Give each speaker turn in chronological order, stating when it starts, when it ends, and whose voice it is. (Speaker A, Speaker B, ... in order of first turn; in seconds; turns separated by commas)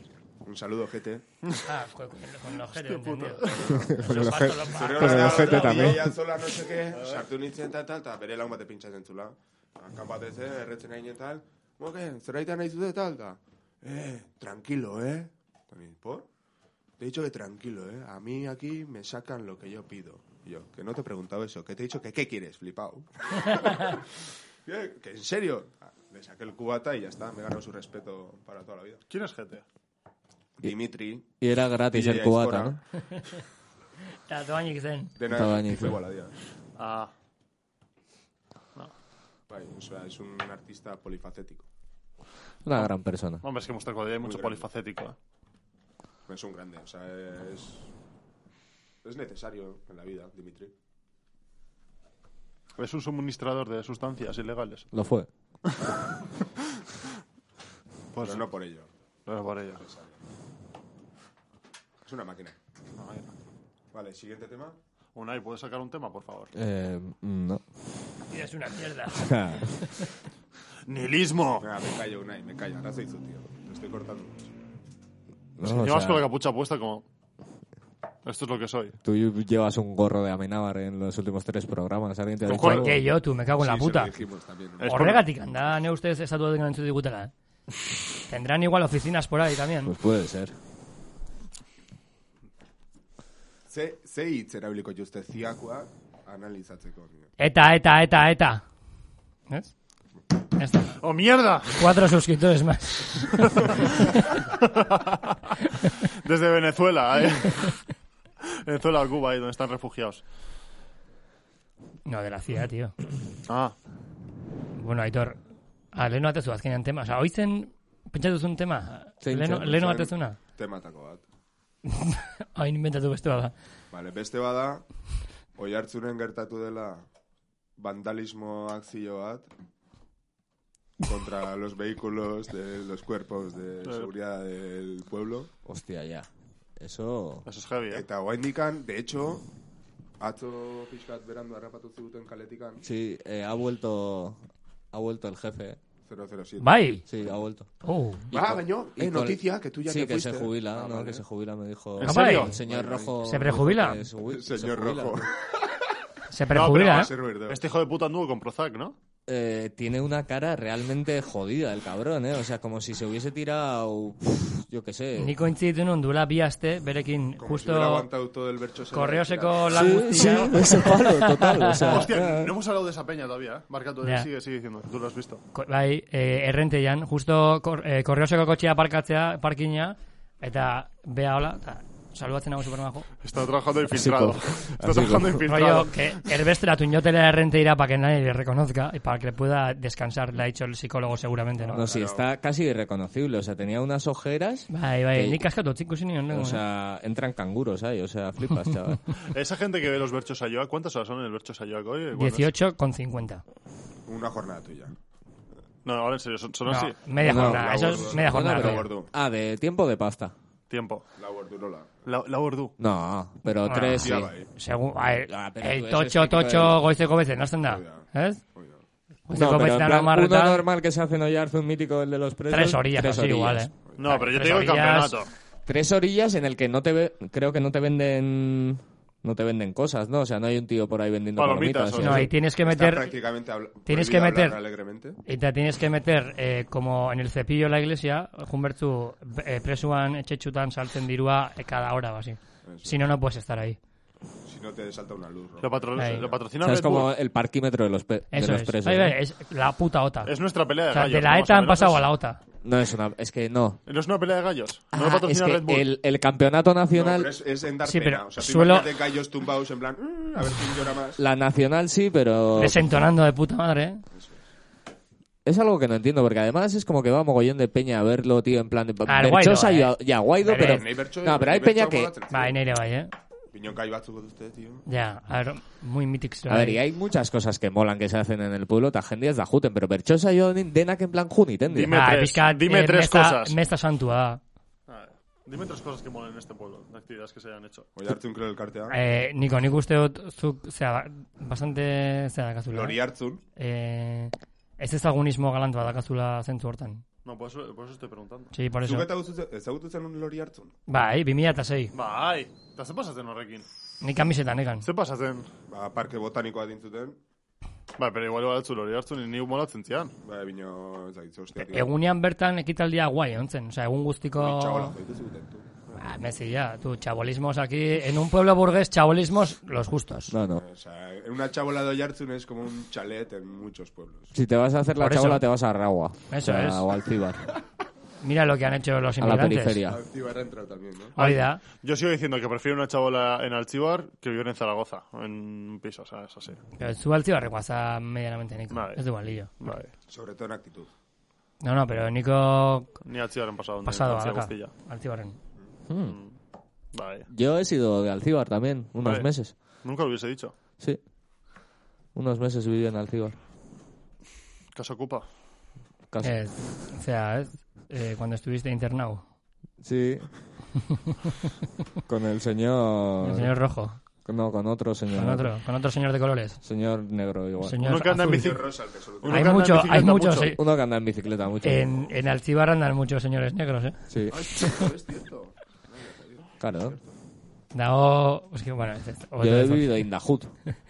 Speaker A: 0.4-1.2, Speaker B: 1.6-6.0, Speaker C: 2.7-3.7, Speaker D: 3.7-6.2, Speaker A: 4.7-16.3, Speaker C: 6.9-7.2, Speaker A: 17.0-24.1, Speaker A: 24.7-29.0, Speaker C: 29.1-29.6, Speaker A: 30.6-31.3, Speaker D: 31.4-32.8, Speaker A: 31.9-32.8, Speaker B: 34.3-35.1, Speaker A: 35.2-36.3, Speaker D: 35.3-36.0, Speaker C: 36.8-37.1, Speaker A: 39.5-41.7, Speaker D: 42.6-43.4, Speaker C: 43.4-45.2, Speaker A: 44.2-44.6, Speaker A: 46.3-47.9, Speaker A: 49.0-50.7, Speaker C: 52.8-54.9, Speaker D: 54.9-55.3, Speaker C: 58.1-58.5, Speaker A: 58.2-58.9, Speaker C: 59.3-59.8, Speaker A: 59.8-60.2, Speaker A: 62.0-62.6, Speaker C: 63.0-63.3, Speaker A: 63.9-64.8, Speaker C: 65.2-66.5, Speaker D: 66.5-67.6, Speaker B: 68.3-70.1, Speaker D: 69.1-69.8, Speaker C: 70.9-71.7, Speaker A: 71.6-74.5, Speaker D: 75.6-76.3, Speaker C: 75.6-77.0, Speaker C: 78.2-79.0, Speaker D: 79.0-83.0, Speaker C: 82.5-82.9, Speaker B: 82.5-84.2, Speaker A: 83.6-85.2, Speaker C: 84.8-85.3, Speaker B: 84.8-87.3, Speaker B: 88.3-89.9, Speaker D: 89.8-90.5, Speaker A: 93.7-97.3, Speaker B: 97.4-98.6, Speaker B: 100.6-101.0, Speaker C: 101.0-101.9, Speaker B: 101.7-104.3, Speaker C: 104.6-105.3, Speaker C: 106.1-107.8, Speaker C: 108.6-110.2, Speaker B: 112.1-112.9, Speaker C: 113.5-113.8, Speaker B: 114.8-115.4, Speaker B: 115.9-120.4, Speaker D: 119.2-119.7, Speaker A: 119.6-121.2, Speaker B: 121.9-123.5, Speaker A: 123.9-124.9, Speaker A: 125.6-127.0, Speaker A: 127.8-129.5, Speaker A: 131.0-135.5, Speaker C: 133.8-134.1, Speaker D: 135.7-136.3, Speaker D: 136.8-137.4, Speaker C: 137.5-138.1, Speaker A: 137.9-139.4, Speaker A: 140.2-142.8, Speaker D: 142.8-145.8, Speaker A: 146.1-146.7, Speaker B: 146.6-147.0, Speaker D: 147.1-147.7, Speaker B: 147.8-148.3, Speaker D: 148.3-155.3, Speaker A: 148.3-151.2, Speaker C: 152.0-152.6, Speaker B: 152.0-152.5, Speaker A: 152.6-153.2, Speaker B: 153.2-154.0, Speaker A: 154.3-155.4, Speaker B: 156.3-157.1, Speaker C: 156.5-158.9, Speaker A: 156.6-157.6, Speaker D: 159.3-165.3, Speaker B: 165.2-168.1, Speaker A: 167.4-170.2, Speaker B: 168.9-172.0, Speaker D: 169.7-172.5, Speaker C: 171.8-175.4, Speaker B: 174.0-174.3, Speaker B: 175.5-183.1, Speaker C: 183.2-186.3, Speaker D: 183.9-185.5, Speaker B: 185.5-191.8, Speaker D: 191.7-195.4, Speaker A: 191.7-192.2, Speaker B: 194.7-196.6, Speaker D: 196.3-199.0, Speaker C: 199.2-202.5, Speaker B: 202.2-203.4, Speaker A: 204.1-204.9, Speaker C: 205.8-207.0, Speaker B: 206.7-208.9, Speaker D: 207.2-210.3, Speaker A: 207.2-209.1, Speaker C: 210.7-211.1, Speaker A: 211.2-211.9, Speaker C: 212.1-212.7, Speaker D: 212.8-214.3, Speaker B: 213.7-218.4, Speaker A: 214.0-214.5, Speaker D: 215.3-216.8, Speaker A: 217.7-218.8, Speaker B: 219.3-220.6, Speaker D: 219.3-223.7, Speaker B: 222.5-225.2, Speaker C: 224.0-225.3, Speaker D: 225.7-232.3, Speaker C: 231.4-232.3, Speaker B: 232.0-233.1, Speaker A: 232.6-235.2, Speaker B: 233.9-234.6, Speaker B: 235.3-243.8, Speaker A: 242.7-243.0, Speaker A: 244.5-246.4, Speaker C: 245.6-247.1, Speaker B: 246.0-246.2, Speaker D: 246.6-249.2, Speaker B: 248.3-250.3, Speaker C: 250.3-252.0, Speaker B: 250.9-252.4, Speaker D: 252.6-253.8, Speaker C: 253.9-255.9, Speaker D: 254.9-257.3, Speaker A: 256.9-261.2, Speaker B: 257.9-258.9, Speaker D: 261.2-262.9, Speaker B: 262.6-264.0, Speaker A: 264.1-264.4, Speaker D: 265.4-272.1, Speaker B: 269.1-270.8, Speaker A: 270.5-272.6, Speaker B: 272.3-273.1, Speaker A: 273.5-274.9, Speaker B: 274.9-276.8, Speaker D: 276.5-282.0, Speaker C: 281.7-283.6, Speaker B: 281.9-284.4, Speaker C: 284.9-287.9, Speaker A: 288.0-289.0, Speaker B: 288.9-293.0, Speaker A: 292.7-293.4, Speaker B: 293.6-297.0, Speaker C: 297.2-298.5, Speaker B: 298.5-299.1, Speaker A: 298.8-300.7, Speaker B: 300.9-301.9, Speaker C: 301.9-303.7, Speaker B: 304.0-304.9, Speaker C: 304.8-305.5, Speaker A: 305.7-307.2, Speaker C: 308.0-310.1, Speaker A: 310.2-311.9, Speaker B: 311.6-315.0, Speaker A: 314.4-315.9, Speaker B: 315.9-320.3, Speaker D: 320.3-320.6, Speaker A: 320.6-324.4, Speaker D: 324.3-327.5, Speaker B: 325.0-325.4, Speaker B: 326.3-326.8, Speaker B: 328.2-329.8, Speaker D: 329.2-330.0, Speaker A: 329.9-331.2, Speaker B: 331.2-331.6, Speaker C: 331.2-336.6, Speaker B: 336.8-339.8, Speaker C: 338.7-339.0, Speaker C: 339.6-339.9, Speaker A: 340.1-340.9, Speaker B: 341.6-343.0, Speaker C: 343.0-344.7, Speaker B: 343.9-345.4, Speaker D: 345.9-346.2, Speaker C: 346.1-346.4, Speaker C: 346.9-347.3, Speaker D: 347.3-349.6, Speaker C: 349.0-350.5, Speaker D: 352.1-353.4, Speaker C: 354.8-355.3, Speaker D: 356.1-356.4, Speaker B: 356.2-359.2, Speaker D: 359.8-360.3, Speaker D: 362.1-363.6, Speaker B: 363.2-364.0, Speaker D: 364.2-365.5, Speaker B: 365.1-366.6, Speaker D: 366.6-367.8, Speaker B: 367.6-368.6, Speaker C: 367.8-370.5, Speaker A: 368.2-369.8, Speaker B: 369.3-370.6, Speaker D: 370.5-371.9, Speaker B: 371.6-374.0, Speaker D: 374.1-374.5, Speaker A: 374.3-377.1, Speaker D: 376.6-377.0, Speaker B: 377.7-380.1, Speaker D: 379.4-380.5